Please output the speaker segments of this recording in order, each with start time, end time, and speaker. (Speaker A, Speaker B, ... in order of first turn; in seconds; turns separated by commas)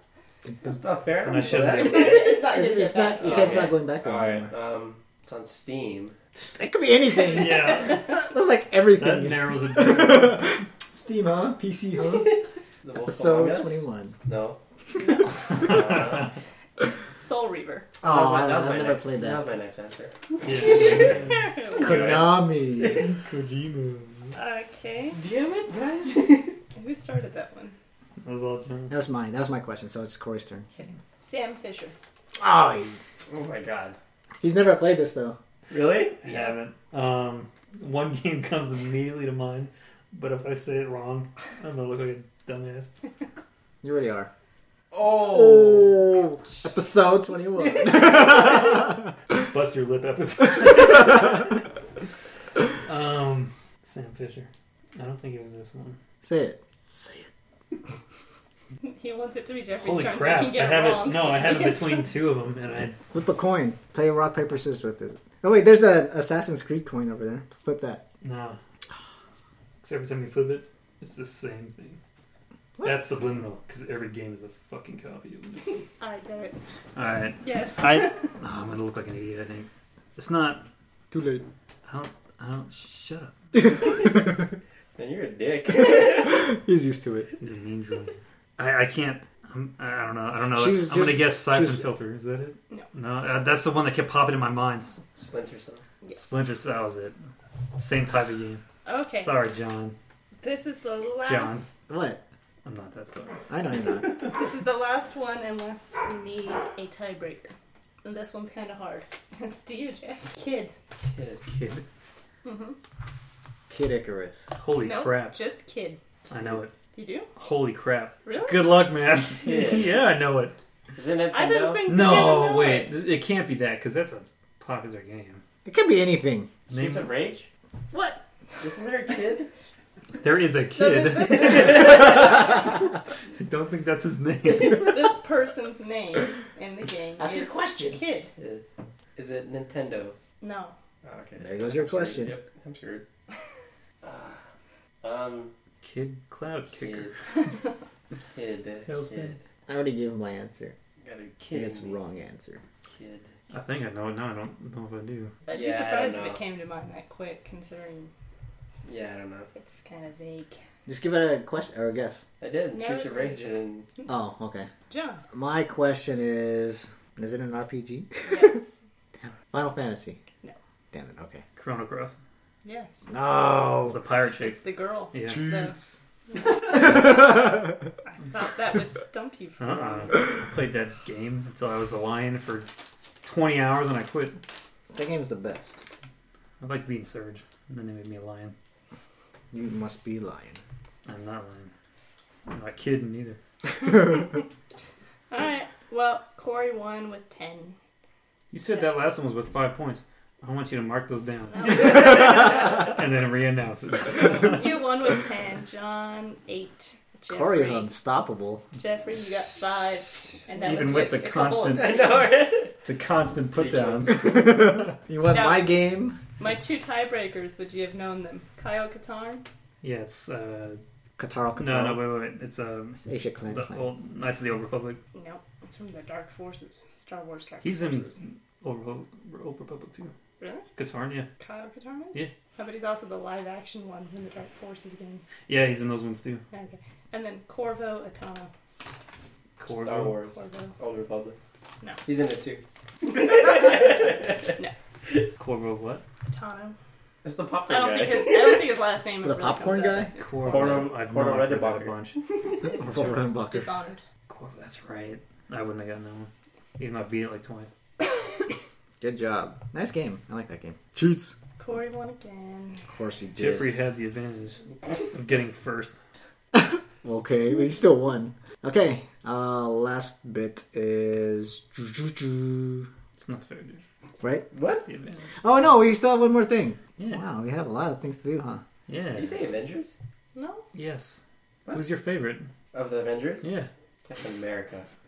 Speaker A: 0.6-2.4, Speaker B: 1.2-2.3, Speaker C: 1.7-3.8, Speaker D: 2.5-4.5, Speaker A: 3.2-6.2, Speaker D: 6.5-12.4, Speaker B: 7.3-8.1, Speaker B: 9.0-10.6, Speaker A: 12.1-14.6, Speaker D: 13.0-14.2, Speaker C: 15.0-15.7, Speaker B: 15.5-16.3, Speaker A: 15.6-16.3, Speaker C: 17.1-17.9, Speaker D: 18.0-19.4, Speaker A: 18.0-21.3, Speaker B: 20.4-24.4, Speaker C: 20.8-22.2, Speaker D: 21.8-23.0, Speaker C: 24.4-25.2, Speaker A: 25.1-26.6, Speaker C: 26.7-27.8, Speaker B: 28.2-29.0, Speaker D: 28.9-30.7, Speaker C: 30.8-31.9, Speaker D: 32.4-33.0, Speaker A: 33.3-34.0, Speaker D: 34.4-35.4, Speaker A: 35.7-36.2, Speaker B: 36.2-42.9, Speaker C: 36.3-36.5, Speaker D: 43.8-44.3, Speaker A: 44.9-46.0, Speaker D: 45.1-49.1, Speaker B: 49.4-51.6, Speaker B: 52.9-56.0, Speaker D: 56.2-57.3, Speaker C: 58.8-62.2, Speaker B: 59.8-63.0, Speaker D: 63.1-68.0, Speaker B: 68.2-68.6, Speaker B: 69.8-72.0, Speaker B: 72.8-75.8, Speaker C: 76.0-76.6, Speaker B: 77.0-80.7, Speaker C: 77.4-78.3, Speaker D: 81.1-81.5, Speaker B: 81.8-83.4, Speaker D: 83.6-84.4, Speaker A: 83.9-84.2, Speaker A: 85.0-86.5, Speaker D: 85.8-87.3, Speaker B: 87.4-95.0, Speaker D: 90.4-91.9, Speaker A: 95.2-95.8, Speaker C: 96.0-96.4, Speaker B: 96.2-97.2, Speaker B: 97.8-98.6, Speaker C: 98.9-99.4, Speaker B: 99.1-100.0, Speaker C: 100.4-101.7, Speaker B: 101.2-101.7, Speaker D: 101.9-102.2, Speaker B: 102.7-103.4, Speaker D: 103.5-104.3, Speaker C: 104.2-110.7, Speaker A: 111.0-111.4, Speaker B: 111.5-111.8, Speaker C: 112.4-112.8, Speaker D: 113.7-114.5, Speaker B: 114.6-115.4, Speaker C: 114.8-116.0, Speaker B: 116.3-116.8, Speaker C: 116.9-117.3, Speaker B: 117.4-120.6, Speaker C: 118.2-118.8, Speaker A: 119.4-119.9, Speaker A: 121.0-121.9, Speaker C: 121.3-123.0, Speaker B: 121.9-125.4, Speaker D: 125.7-126.5, Speaker A: 126.7-127.5, Speaker B: 126.7-127.2, Speaker D: 127.9-128.2, Speaker A: 128.6-129.5, Speaker B: 130.2-132.5, Speaker C: 130.7-132.5, Speaker A: 131.3-132.5, Speaker B: 133.4-135.1, Speaker C: 134.7-138.3, Speaker D: 137.2-138.0, Speaker A: 138.4-138.6, Speaker A: 139.2-140.2, Speaker C: 140.4-140.8, Speaker A: 141.0-143.1, Speaker D: 141.4-142.4, Speaker A: 144.0-144.4, Speaker A: 145.0-145.5, Speaker B: 145.8-147.1, Speaker A: 146.7-147.1, Speaker A: 148.3-149.4, Speaker B: 148.9-149.4, Speaker D: 149.7-150.8, Speaker A: 151.0-152.0, Speaker D: 151.5-152.6, Speaker A: 152.9-153.3, Speaker B: 153.5-155.3, Speaker C: 155.5-158.1, Speaker A: 155.5-156.4, Speaker A: 158.8-159.5, Speaker C: 159.5-160.6, Speaker D: 160.9-162.2, Speaker A: 162.4-163.9, Speaker C: 162.7-163.4, Speaker D: 164.1-164.7, Speaker C: 164.9-165.2, Speaker D: 165.3-168.5, Speaker C: 168.3-168.8, Speaker D: 169.2-170.2, Speaker D: 170.9-171.4, Speaker B: 171.6-172.2, Speaker C: 172.6-173.1, Speaker D: 173.1-174.0, Speaker B: 173.8-174.6, Speaker C: 174.4-175.8, Speaker B: 175.1-175.7, Speaker D: 175.2-176.0, Speaker C: 176.3-180.4, Speaker D: 176.6-177.8, Speaker B: 179.6-182.7, Speaker B: 183.2-184.4, Speaker D: 184.9-185.8, Speaker B: 186.6-188.6, Speaker D: 189.5-190.6, Speaker B: 191.1-191.7, Speaker B: 192.5-193.4, Speaker C: 193.8-194.4, Speaker C: 195.3-197.8, Speaker B: 198.5-204.8, Speaker C: 201.5-203.0, Speaker C: 204.1-207.9, Speaker D: 207.3-208.6, Speaker C: 208.8-212.3, Speaker B: 210.6-211.9, Speaker A: 211.8-212.8, Speaker B: 212.8-214.9, Speaker A: 213.6-214.2, Speaker D: 214.1-216.2, Speaker C: 215.3-215.8, Speaker C: 216.4-219.4, Speaker B: 219.8-220.8, Speaker D: 221.2-222.2, Speaker B: 221.6-225.0, Speaker D: 223.0-223.9, Speaker C: 225.1-228.2, Speaker B: 227.6-230.1, Speaker C: 230.4-230.7, Speaker B: 230.8-231.3, Speaker C: 231.4-235.3, Speaker B: 235.5-236.4, Speaker C: 236.5-238.5, Speaker B: 239.6-240.2, Speaker A: 239.7-241.4, Speaker C: 240.3-240.7, Speaker A: 242.1-244.6, Speaker B: 245.4-246.0, Speaker C: 246.3-246.8, Speaker A: 247.2-248.7, Speaker C: 247.7-250.9, Speaker D: 249.2-250.1, Speaker B: 250.2-252.2, Speaker A: 250.4-252.0, Speaker D: 252.6-253.7, Speaker C: 253.4-254.0, Speaker B: 254.3-257.7, Speaker D: 259.0-261.4, Speaker C: 261.6-262.8, Speaker D: 262.9-263.8, Speaker B: 263.4-265.9, Speaker D: 266.5-272.9, Speaker B: 273.2-273.8, Speaker D: 274.2-274.5, Speaker A: 274.5-274.9, Speaker B: 274.9-275.3, Speaker D: 275.4-278.6, Speaker B: 277.0-277.2, Speaker B: 278.9-279.4, Speaker A: 279.1-279.9, Speaker C: 280.3-280.7, Speaker B: 280.7-282.5, Speaker A: 282.7-283.5, Speaker B: 283.4-283.7, Speaker A: 284.1-284.9